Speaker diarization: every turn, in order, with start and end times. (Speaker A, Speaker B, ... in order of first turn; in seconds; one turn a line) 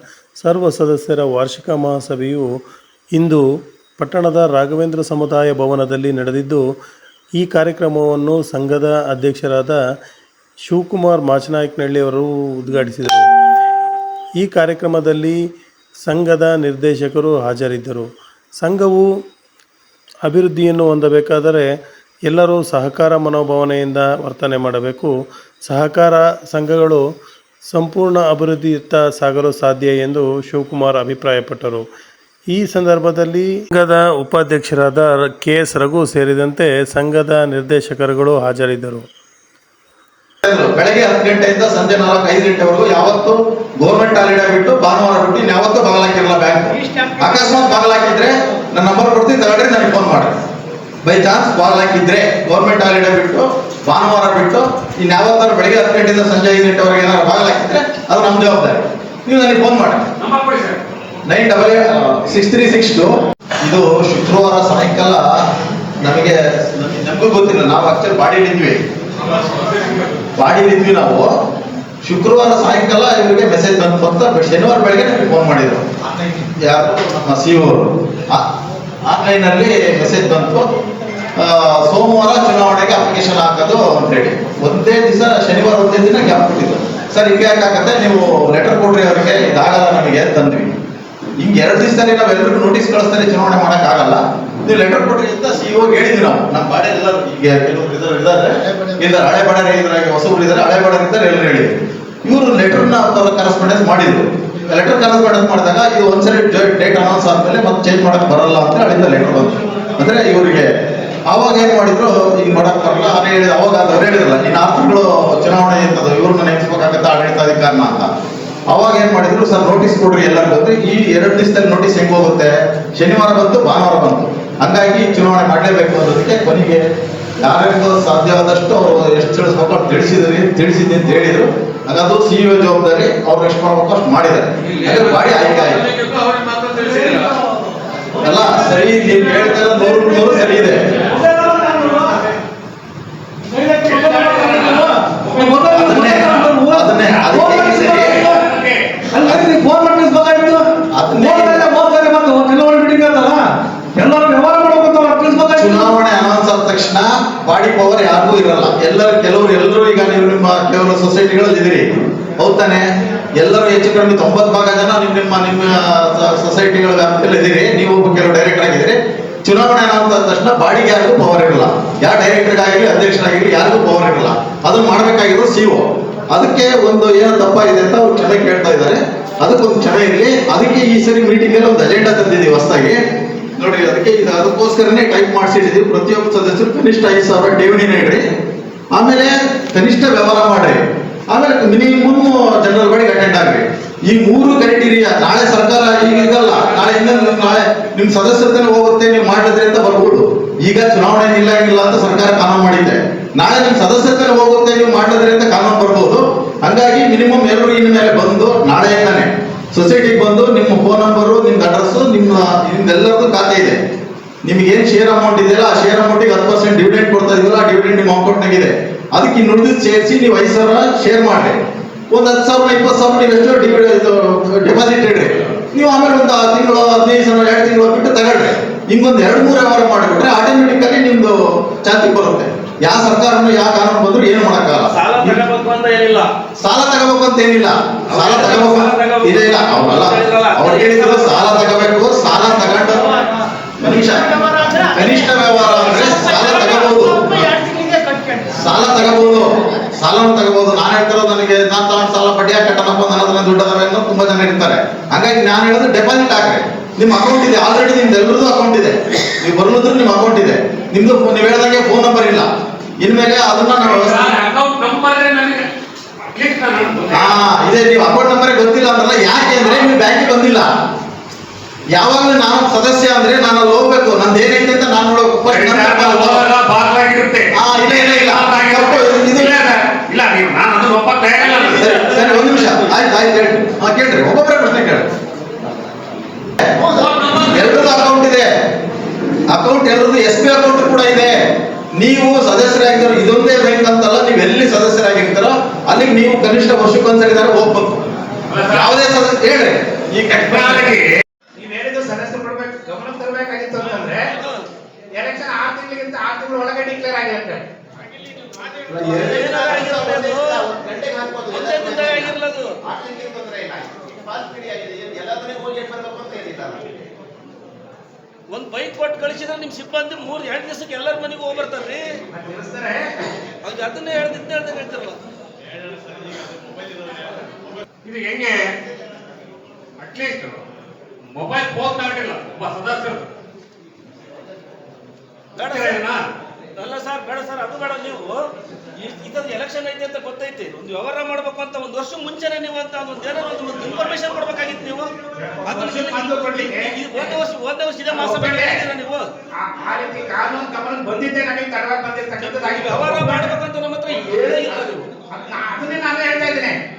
Speaker A: 0.4-2.5
Speaker A: 3.1-3.4
Speaker A: 4.0-6.6
Speaker A: 7.4-9.8
Speaker A: 10.7-13.3
Speaker A: 14.4-15.4
Speaker A: 16.0-18.1
Speaker A: 18.6-19.1
Speaker A: 20.2-21.7
Speaker A: 22.3-25.1
Speaker A: 25.6-27.0
Speaker A: 27.7-31.8
Speaker A: 32.5-39.0
Speaker B: 40.5-50.4
Speaker C: 46.9-47.3
Speaker B: 51.0-60.1
Speaker D: 60.2-60.8
Speaker B: 61.3-65.2
Speaker B: 66.0-68.8
Speaker D: 69.2-70.2
Speaker B: 70.4-71.3
Speaker B: 72.0-78.5
Speaker B: 79.1-80.7
Speaker B: 81.4-90.7
Speaker B: 91.4-110.7
Speaker B: 111.3-118.1
Speaker B: 118.7-126.8
Speaker B: 127.4-135.9
Speaker D: 134.8-135.2
Speaker D: 135.9-137.3
Speaker C: 136.7-137.4
Speaker B: 138.2-141.0
Speaker C: 139.7-140.4
Speaker C: 141.0-142.3
Speaker C: 143.5-148.4
Speaker D: 143.9-145.6
Speaker B: 145.6-148.2
Speaker D: 147.9-149.0
Speaker C: 149.1-150.7
Speaker B: 150.9-151.7
Speaker C: 151.2-153.4
Speaker C: 154.0-155.9
Speaker B: 155.6-183.0
Speaker B: 183.6-188.2
Speaker B: 188.9-213.8
Speaker B: 214.4-221.6
Speaker B: 222.1-235.4
Speaker E: 234.9-236.3
Speaker B: 236.6-243.2
Speaker E: 238.1-241.8
Speaker B: 243.8-247.6
Speaker C: 244.3-245.3
Speaker C: 245.9-248.6
Speaker B: 248.5-262.5
Speaker B: 263.0-264.4
Speaker D: 263.8-265.7
Speaker D: 266.2-267.3
Speaker B: 267.1-270.7
Speaker B: 271.9-276.5
Speaker D: 275.5-281.8
Speaker B: 277.5-279.7
Speaker E: 281.4-282.9
Speaker B: 281.6-285.1
Speaker B: 286.6-288.5
Speaker D: 286.8-287.9
Speaker B: 289.5-291.3
Speaker B: 291.9-298.0
Speaker D: 298.5-298.9
Speaker B: 298.6-300.9
Speaker D: 300.4-301.1
Speaker F: 301.6-304.3
Speaker E: 304.4-304.6
Speaker F: 305.1-307.6
Speaker B: 308.9-317.0
Speaker E: 309.0-310.6
Speaker E: 311.5-312.7
Speaker E: 318.5-322.1
Speaker F: 322.3-323.3
Speaker E: 323.6-325.2
Speaker D: 328.0-328.8
Speaker D: 330.0-330.6
Speaker D: 331.3-333.3
Speaker E: 335.6-336.2
Speaker D: 335.6-336.2
Speaker E: 336.8-345.1
Speaker F: 345.5-347.3
Speaker E: 345.6-349.3
Speaker F: 348.1-348.8
Speaker F: 349.6-353.5
Speaker E: 352.4-355.1
Speaker F: 355.3-356.8